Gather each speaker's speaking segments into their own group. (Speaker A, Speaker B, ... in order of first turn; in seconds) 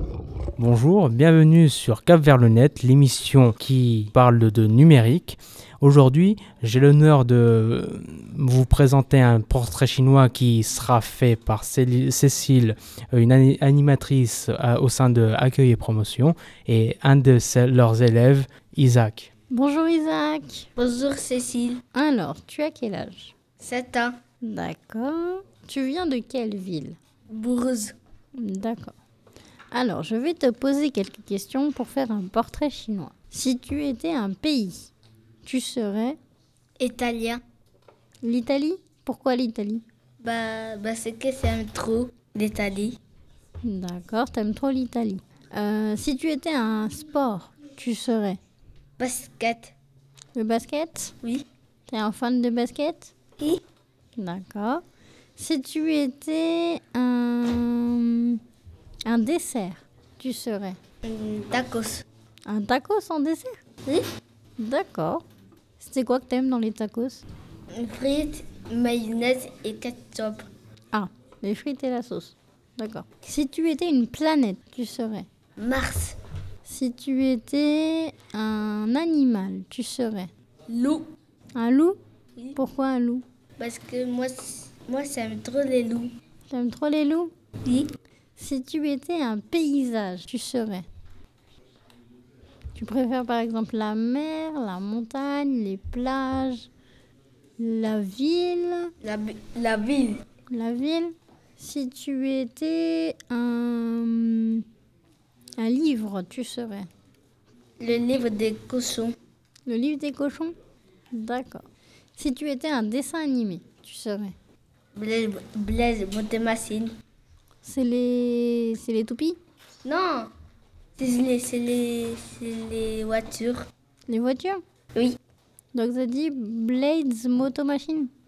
Speaker A: 0.6-19.3
Speaker B: 19.5-20.7, 21.9-23.4, 24.4-27.0, 28.4-28.9, 29.7-34.9, 35.4-36.2, 38.2-39.9, 43.6-48.4, 50.4-51.1, 51.9-53.1, 54.2-54.8, 55.4-58.4, 59.1-60.8, 62.5-63.6, 64.6-65.2, 65.8-67.2, 70.9-75.3, 76.7-80.3, 81.6-82.0, 82.5-83.2, 86.5-87.3, 88.4-90.9, 92.8-96.7, 97.6-98.9, 100.5-104.6, 105.6-106.9, 109.7-110.6, 111.1-111.7, 112.2-114.3, 117.6-119.4, 124.1-124.6, 125.7-128.1
Speaker C: 20.8-21.8, 23.6-24.2, 27.3-27.9, 36.8-37.4, 40.2-43.0, 49.0-49.7, 61.0-62.0, 67.7-70.5, 75.6-76.2, 80.7-81.1, 83.6-86.1, 99.0-100.2, 107.8-109.2, 115.0-116.9, 119.8-120.3, 121.0-123.7